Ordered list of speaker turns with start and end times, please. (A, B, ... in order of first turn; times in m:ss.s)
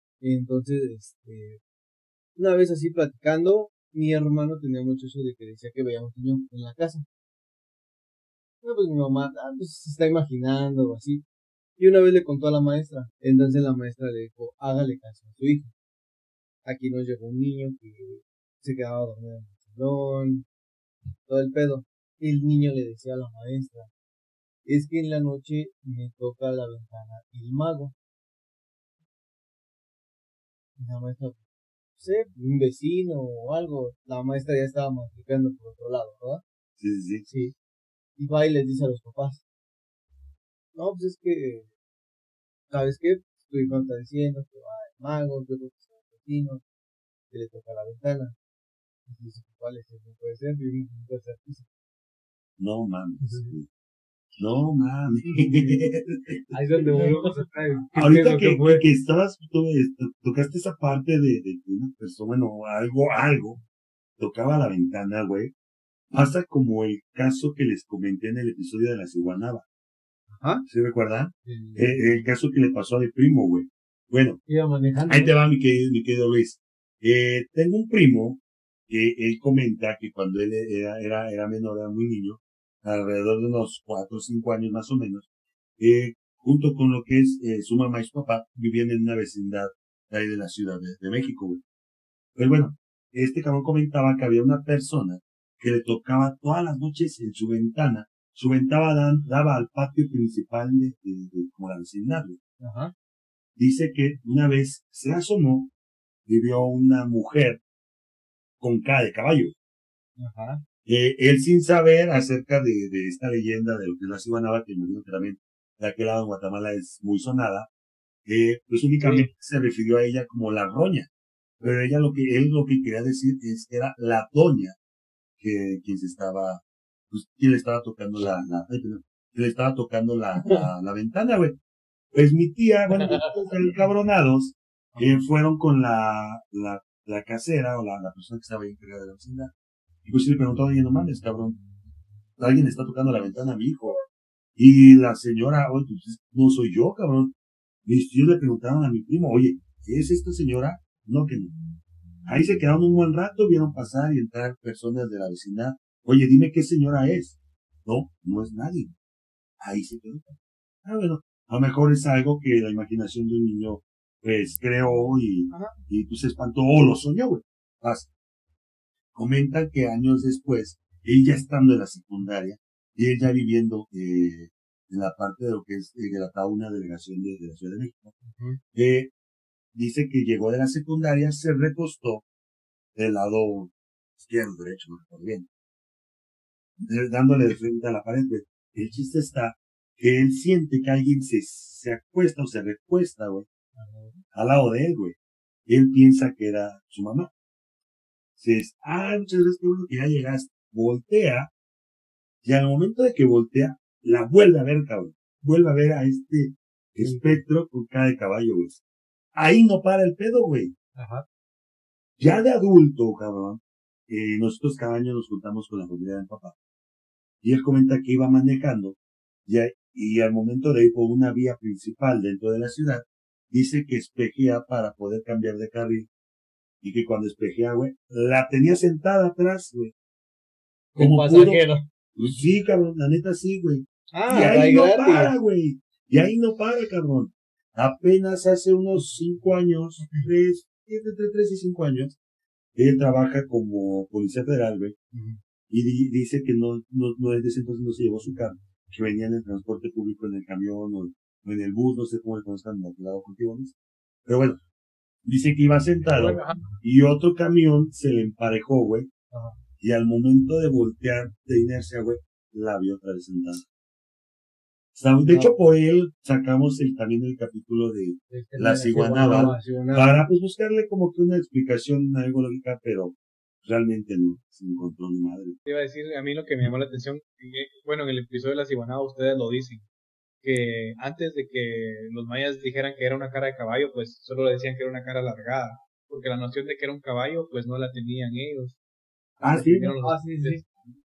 0:00.2-0:01.6 A
0:02.4-0:07.0 A
0:08.6-0:11.2 A
0:11.8-0:15.7 A
0:16.6-0:20.5 A
0:21.2-0:23.9 A
0:24.7-0:27.9 A
0:30.8-0:31.4 A
0:32.0-0:36.4 A
0:36.8-0:37.3 B
0:37.3-0:37.5 A
0:38.2-0:39.4 A
0:40.8-0:41.7 A
0:42.7-0:46.6 A
0:47.3-0:48.4 A
0:49.1-0:51.7 A
0:52.6-0:53.7 B
0:54.4-0:57.2 B
0:56.5-0:58.8 C
0:58.0-1:03.6 B
1:04.2-1:05.5 B
1:06.1-1:09.7 B
1:10.3-1:10.6 A
1:10.7-1:14.4 B
1:11.5-1:12.2 C
1:14.5-1:15.4 C
1:15.1-1:25.3 B
1:25.8-1:31.6 B
1:32.4-1:42.4 B
1:42.6-1:42.9 A
1:43.6-1:45.7 B
1:46.3-1:47.6 B
1:48.6-1:49.6 B
1:50.2-1:50.6 A
1:50.8-1:57.7 B
1:58.3-2:01.1 B
1:59.0-1:59.3 D
2:01.6-2:04.8 B
2:05.4-2:11.6 B
2:12.1-2:19.5 B
2:20.0-2:21.6 B
2:22.4-2:24.0 B
2:24.6-2:27.3 B
2:27.8-2:31.6 B
2:32.2-2:39.0 B
2:39.6-2:48.1 B
2:45.5-2:45.8 A
2:49.1-2:58.1 B
2:58.3-2:58.6 A
2:58.7-2:59.1 B
2:59.7-3:02.2 B
3:03.0-3:05.5 B
3:06.8-3:13.5 B
3:13.8-3:14.2 A
3:14.3-3:17.3 B
3:18.4-3:21.5 B
3:22.4-3:28.8 B
3:29.4-3:30.7 B
3:31.0-3:31.2 C
3:32.2-3:36.6 B
3:37.4-3:46.1 B
3:46.8-3:49.9 B
3:51.0-4:02.2 B
3:51.0-3:51.8 C
3:54.1-3:55.4 A
4:02.8-4:05.0 B
4:05.1-4:05.4 A
4:05.7-4:13.8 B
4:14.3-4:14.6 B
4:15.2-4:19.1 B
4:16.1-4:16.6 D
4:19.3-4:19.6 A
4:19.8-4:23.7 B
4:25.0-4:35.6 B
4:28.3-4:30.3 A
4:35.7-4:39.9 D
4:40.4-4:48.8 D
4:49.4-4:49.9 B
4:49.5-4:50.7 D
4:50.0-4:50.6 A